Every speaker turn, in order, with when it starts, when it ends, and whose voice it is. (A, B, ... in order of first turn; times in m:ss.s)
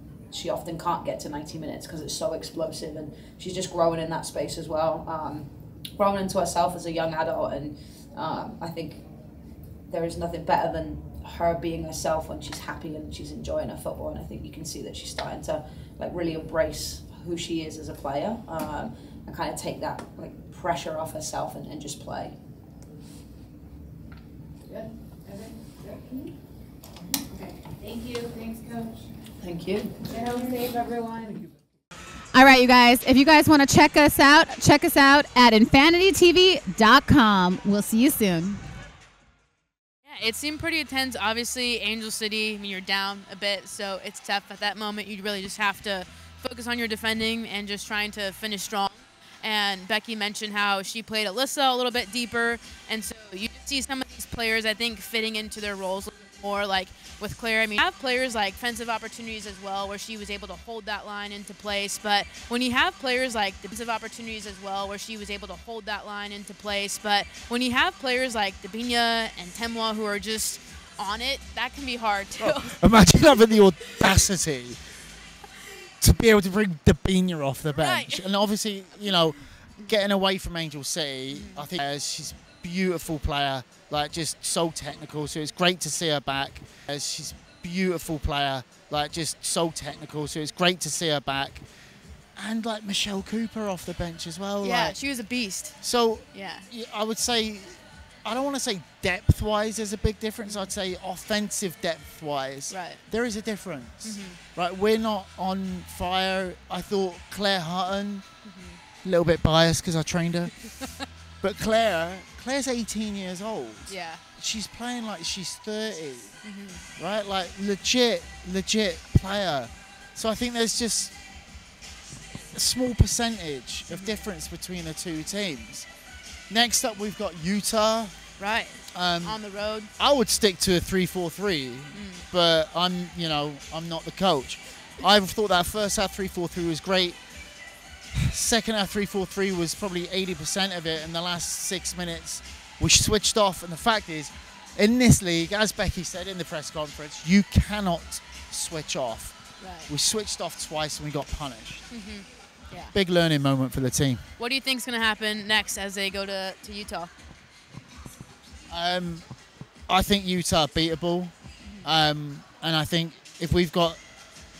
0:00.3-0:09.0 A
0:09.9-0:22.3 A
0:24.7-0:26.3 B
0:27.2-0:29.0 B
0:29.4-0:30.0 A
0:30.0-0:31.5 B
0:32.3-0:38.6 C
0:40.0-1:13.3 D
1:12.4-1:14.8 E
1:16.0-1:31.6 E
1:17.7-1:18.4 D
1:21.3-1:21.7 D
1:32.4-1:35.0 E
1:34.6-1:36.7 D
1:35.8-1:48.2 E
1:40.4-1:40.7 D
1:42.7-1:43.0 D
1:44.0-1:44.4 D
1:48.4-1:48.8 D
1:49.0-1:50.7 E
1:51.4-1:56.4 E
1:53.9-1:54.2 D
1:56.4-1:56.8 D
1:57.0-2:01.1 E
2:02.5-2:05.9 E
2:03.9-2:04.2 D
2:06.5-2:08.2 E
2:08.4-2:09.9 D
2:08.9-2:09.4 E
2:10.0-2:17.2 E
2:11.9-2:12.2 D
2:18.1-2:31.9 E
2:29.6-2:29.9 D
2:31.9-2:32.9 D
2:32.9-2:34.2 E
2:34.4-2:37.1 D
2:38.7-2:39.2 E
2:39.9-2:44.0 E
2:41.6-2:41.9 D